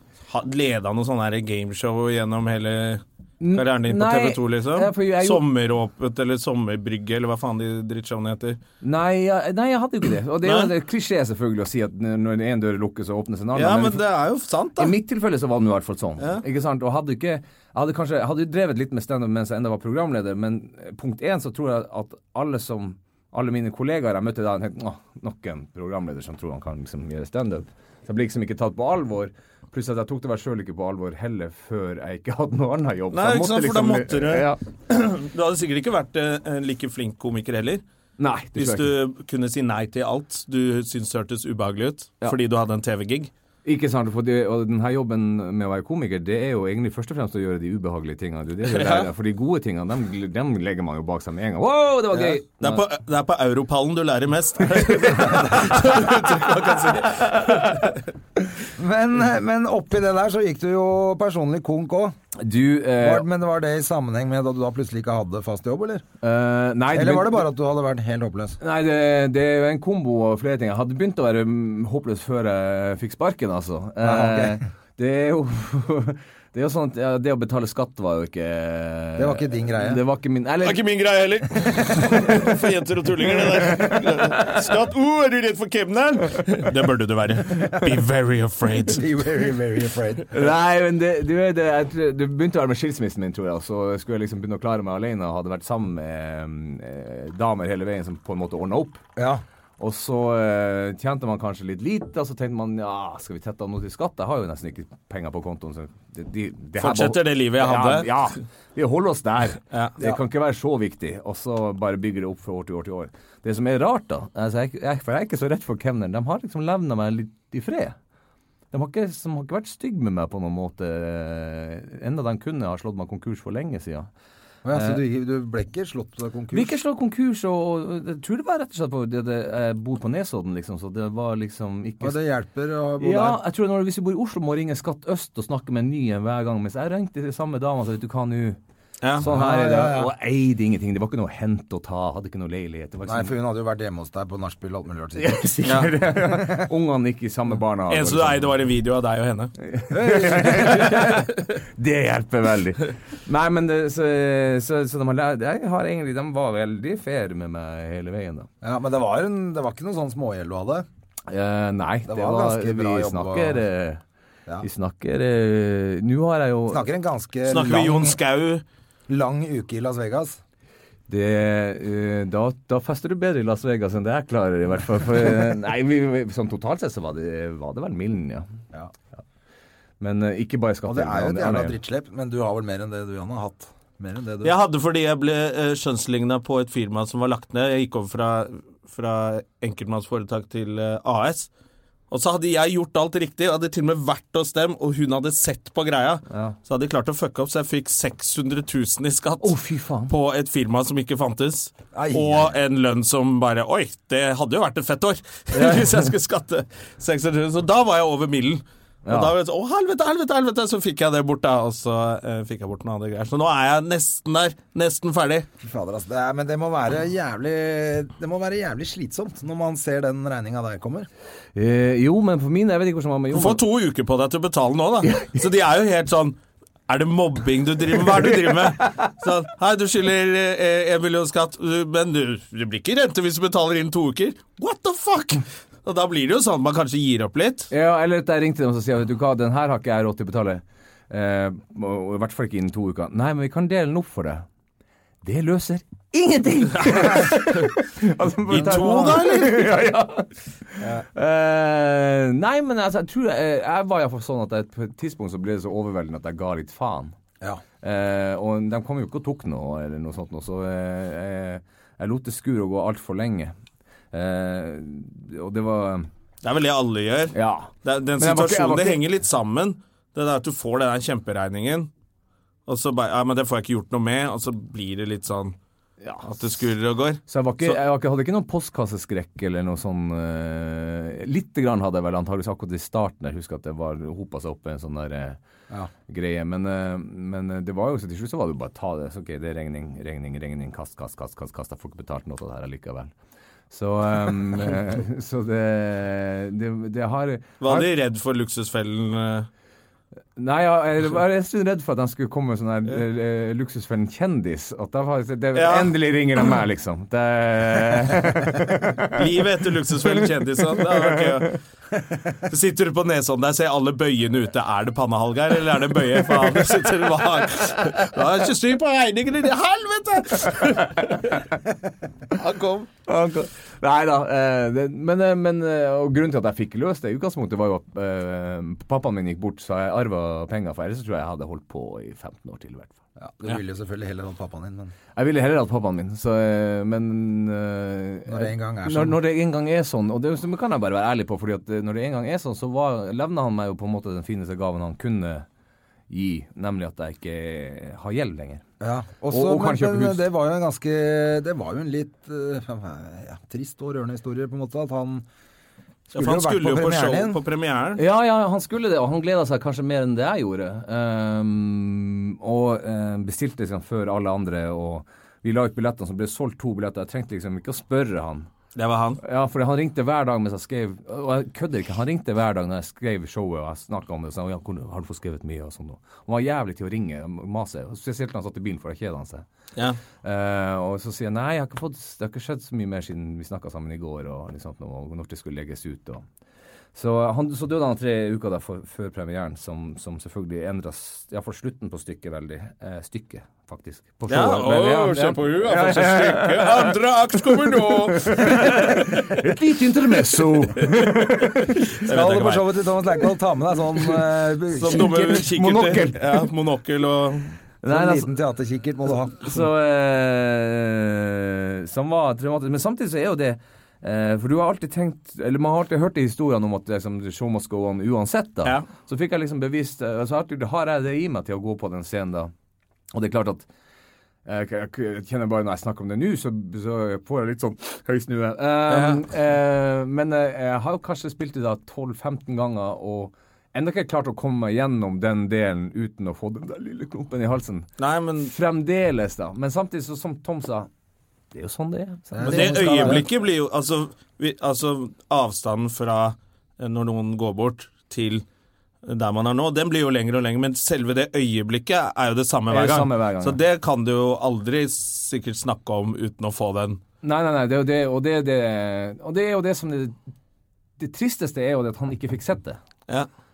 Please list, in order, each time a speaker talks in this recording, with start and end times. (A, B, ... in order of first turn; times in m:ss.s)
0:00.3-0:08.6 A
0:03.4-0:05.4 B
0:08.8-0:14.0 B
0:10.4-0:10.7 A
0:13.6-0:14.9 A
0:14.8-0:34.6 B
0:33.1-0:37.8 A
0:38.2-0:38.9 B
0:38.6-0:43.3 A
0:43.6-0:52.8 B
0:48.6-0:49.1 A
0:52.6-0:58.0 A
0:58.8-1:02.2 C
1:02.4-1:03.3 B
1:03.0-1:06.0 C
1:06.2-1:07.5 B
1:06.9-1:08.6 C
1:08.6-1:20.8 B
1:14.0-1:14.6 C
1:19.2-1:20.0 C
1:20.6-1:29.0 A
1:28.9-1:30.3 C
1:30.3-1:39.0 B
1:39.2-1:39.4 C
1:39.8-1:58.0 B
1:46.8-1:48.2 A
1:58.7-2:04.1 B
2:04.6-2:06.8 C
2:04.7-2:05.0 B
2:06.5-2:12.2 B
2:12.0-2:13.4 C
2:13.0-2:18.6 B
2:19.2-2:23.3 B
2:19.2-2:20.1 C
2:23.1-2:25.5 C
2:25.2-2:28.5 B
2:25.6-2:25.9 A
2:27.9-2:29.5 A
2:29.6-2:38.5 B
2:29.9-2:31.0 C
2:38.6-2:40.9 C
2:41.3-2:44.0 B
2:42.1-2:43.6 C
2:44.6-2:46.8 B
2:46.7-2:48.2 C
2:47.5-2:48.6 A
2:49.1-2:50.4 C
2:51.1-2:58.5 B
3:00.0-3:01.8 B
3:00.8-3:04.5 C
3:04.4-3:11.5 A
3:12.1-3:19.6 A
3:16.3-3:16.6 B
3:19.4-3:20.1 B
3:20.1-3:35.5 A
3:21.9-3:22.6 C
3:25.6-3:26.1 B
3:29.1-3:29.3 B
3:35.6-3:41.1 C
3:41.6-3:43.6 B
3:43.3-3:46.4 A
3:45.0-3:45.4 B
3:46.9-3:57.7 A
3:57.7-4:04.4 B
4:05.2-4:17.1 B
4:07.0-4:07.2 A
4:08.5-4:09.7 A
4:17.8-4:23.5 B
4:24.1-4:26.1 B
4:26.4-4:31.9 A
4:27.3-4:29.0 B
4:32.7-4:35.6 A
4:36.0-4:36.3 B
4:36.2-4:37.8 A
4:37.3-4:45.4 B
4:46.1-4:53.1 B
4:53.7-4:57.9 B
4:57.6-4:59.5 A
5:00.4-5:09.2 B
5:05.6-5:06.0 A
5:09.1-5:11.6 A
5:12.5-5:21.4 A
5:22.3-5:22.9 A
5:23.1-5:33.0 B
5:33.2-5:34.9 C
5:35.2-5:45.5 B
5:38.3-5:39.2 C
5:46.1-5:48.6 B
5:48.8-5:55.2 C
5:49.3-5:50.2 B
5:56.1-5:57.4 C
5:56.1-5:58.0 A
5:58.0-6:08.5 B
6:08.8-6:09.2 A
6:09.2-6:19.4 B
6:20.2-6:26.2 B
6:27.0-6:36.9 B
6:34.3-6:39.0 A
6:37.5-6:41.8 B
6:41.6-6:42.7 A
6:42.0-6:45.4 C
6:44.7-6:47.6 A
6:44.9-6:46.5 B
6:47.8-6:48.3 B
6:47.9-6:49.6 C
6:49.5-7:02.5 B
7:03.1-7:03.7 B
7:04.5-7:17.9 B
7:08.9-7:09.2 A
7:18.0-7:18.5 A
7:18.4-7:20.9 B
7:21.5-7:23.2 B
7:22.3-7:23.3 C
7:22.5-7:28.4 A
7:29.0-7:37.0 A
7:32.7-7:33.6 B
7:37.2-7:40.2 B
7:41.0-7:42.8 B